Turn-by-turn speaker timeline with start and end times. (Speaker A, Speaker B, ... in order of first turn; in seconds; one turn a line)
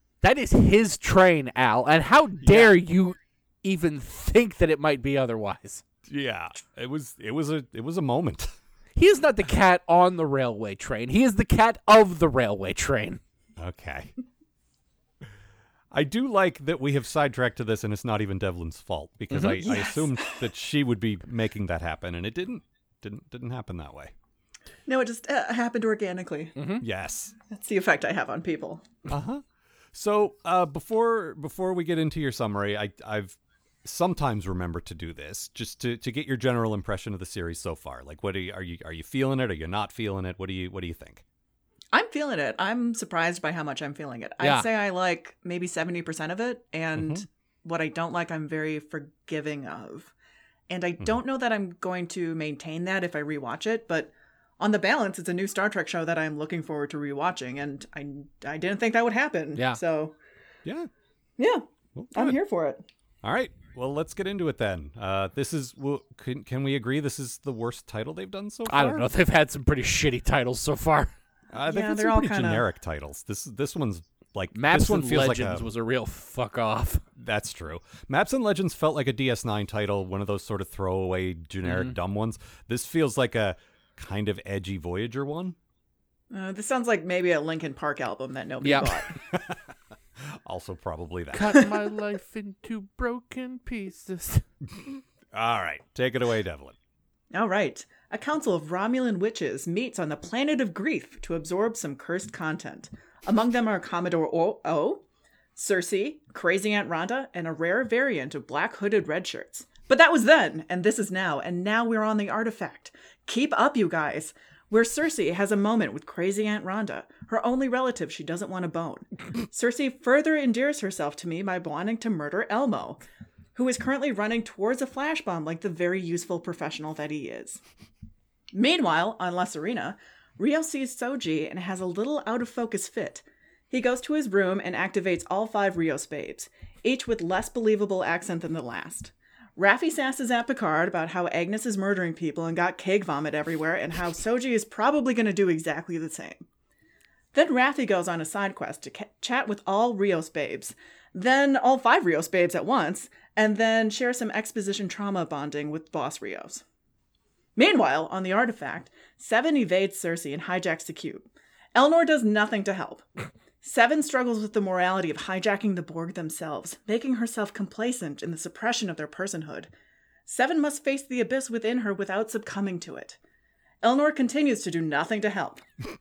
Speaker A: 0.2-5.8
Speaker B: 2.4-2.8
Speaker B: 6.0-8.5
Speaker A: 8.9-13.2
Speaker B: 13.6-14.1
Speaker B: 15.9-24.1
Speaker A: 19.3-19.6
Speaker C: 19.6-20.4
Speaker C: 24.9-26.6
Speaker A: 26.6-26.8
Speaker B: 26.8-27.3
Speaker C: 27.5-28.9
Speaker B: 29.1-29.4
Speaker B: 29.9-41.2
Speaker C: 41.9-50.1
Speaker A: 44.4-44.6
Speaker B: 47.0-47.2
Speaker C: 50.7-60.1
Speaker C: 61.4-62.8
Speaker B: 62.0-62.4
Speaker B: 63.2-69.1
Speaker A: 68.7-71.1
Speaker B: 71.5-75.7
Speaker C: 71.7-72.7
Speaker A: 74.5-77.0
Speaker B: 77.2-85.5
Speaker A: 81.6-81.9
Speaker C: 86.3-89.2
Speaker A: 88.6-88.9
Speaker B: 89.2-89.6
Speaker B: 90.2-91.7
Speaker A: 91.3-94.4
Speaker B: 94.7-96.8
Speaker C: 97.3-105.0
Speaker C: 105.5-123.0
Speaker C: 123.5-127.6
Speaker C: 128.5-146.4
Speaker C: 147.3-156.6
Speaker C: 157.6-163.0
Speaker C: 163.6-169.7
Speaker C: 170.2-173.2
Speaker C: 173.8-175.7